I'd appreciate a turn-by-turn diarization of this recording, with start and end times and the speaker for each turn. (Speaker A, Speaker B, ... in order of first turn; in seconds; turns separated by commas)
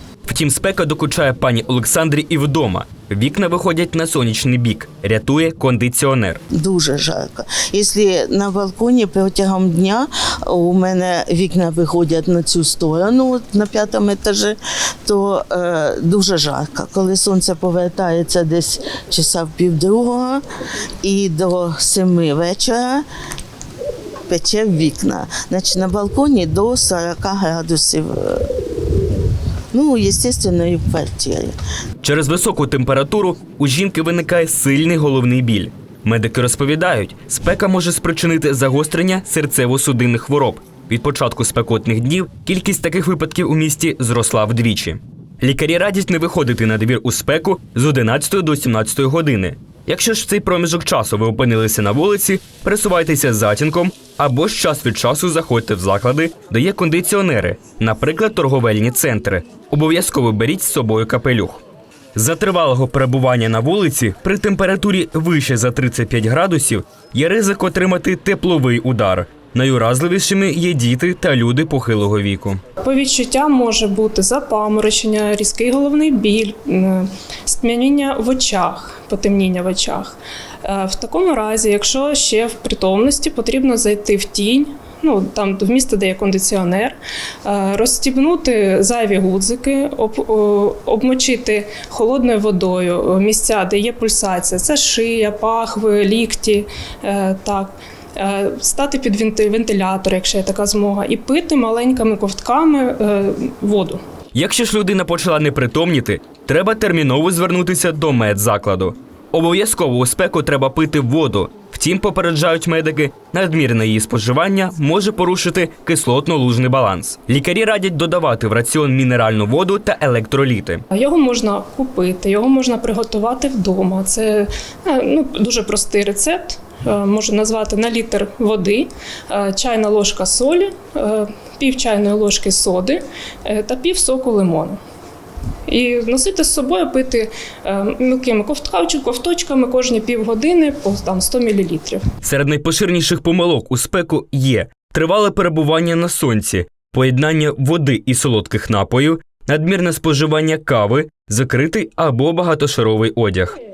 Speaker A: 0.2-6.4, Speaker B: 6.5-20.4, Speaker B: 21.0-23.1, Speaker B: 24.3-28.6, Speaker B: 29.7-31.5, Speaker A: 32.0-61.6, Speaker A: 62.1-72.6, Speaker C: 72.8-104.0, Speaker A: 104.3-120.8, Speaker C: 120.9-134.8, Speaker C: 135.7-142.1, Speaker A: 142.2-153.5